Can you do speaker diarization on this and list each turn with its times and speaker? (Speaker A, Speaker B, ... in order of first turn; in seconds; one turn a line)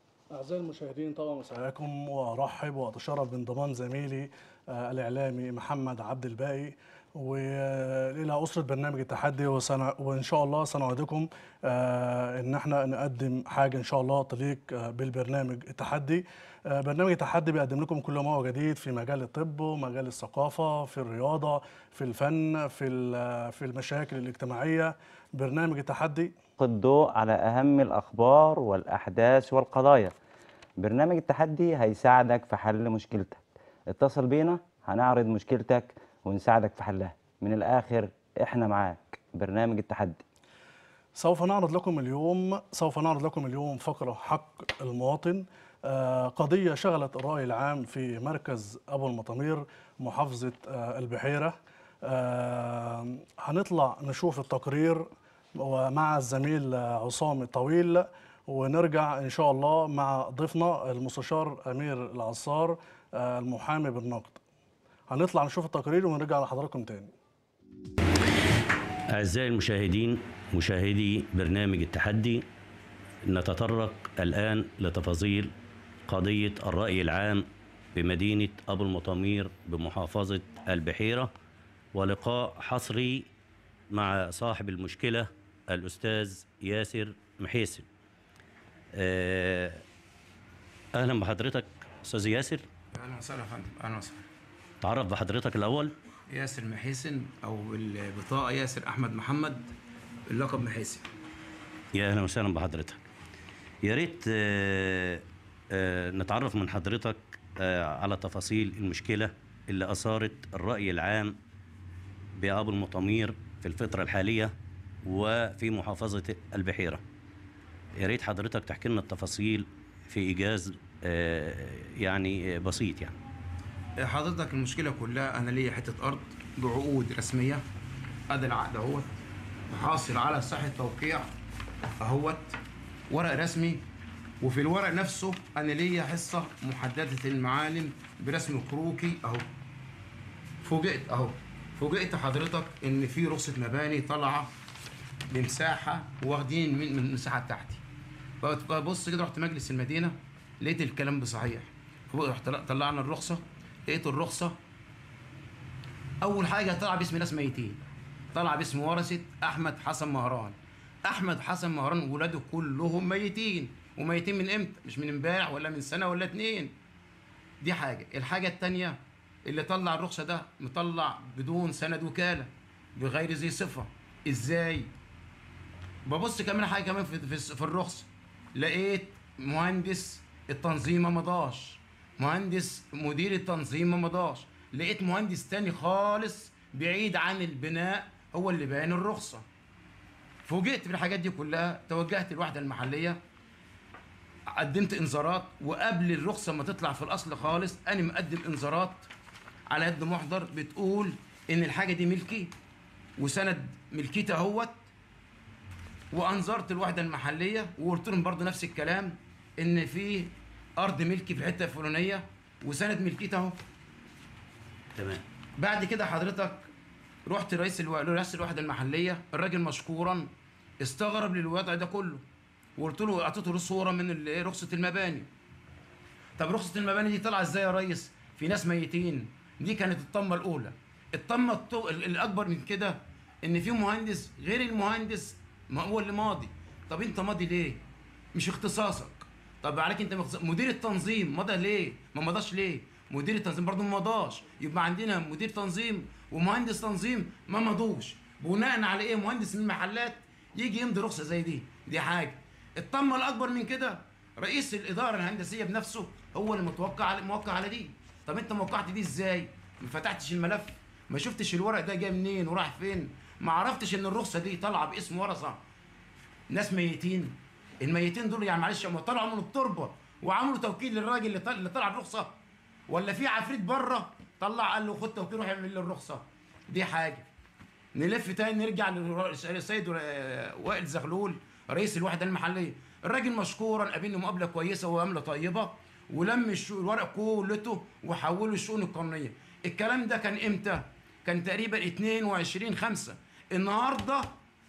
Speaker A: 0.3-26.3
Speaker B: 26.6-30.1
Speaker B: 30.8-40.2
Speaker A: 41.1-64.4
Speaker A: 65.1-67.1
Speaker C: 69.1-72.5
Speaker C: 73.2-75.5
Speaker C: 76.1-81.3
Speaker C: 81.9-83.3
Speaker C: 83.9-87.8
Speaker C: 88.9-89.8
Speaker C: 90.9-92.6
Speaker D: 92.9-94.2
Speaker C: 94.8-95.9
Speaker D: 96.3-99.7
Speaker D: 100.3-101.1
Speaker C: 101.9-103.0
Speaker C: 103.8-111.4
Speaker C: 112.3-114.5
Speaker C: 115.0-117.0
Speaker C: 118.0-123.1
Speaker D: 124.0-127.6
Speaker D: 128.3-129.1
Speaker D: 129.7-131.3
Speaker D: 132.0-132.6
Speaker D: 133.1-133.8
Speaker D: 134.4-139.4
Speaker D: 140.6-144.5
Speaker D: 145.3-147.8
Speaker D: 148.4-154.6
Speaker D: 156.2-157.8
Speaker D: 158.3-166.7
Speaker D: 167.6-174.9
Speaker D: 176.1-189.4
Speaker D: 190.4-193.2
Speaker D: 194.5-199.1
Speaker D: 199.7-202.5
Speaker D: 203.2-204.8
Speaker D: 206.1-213.6
Speaker C: 214.9-215.2
Speaker D: 215.6-216.7
Speaker D: 217.2-220.3
Speaker D: 220.8-222.2
Speaker D: 222.8-225.3
Speaker D: 226.4-237.8
Speaker D: 238.3-265.6
Speaker D: 266.5-272.4
Speaker D: 272.9-277.2
Speaker D: 277.9-294.3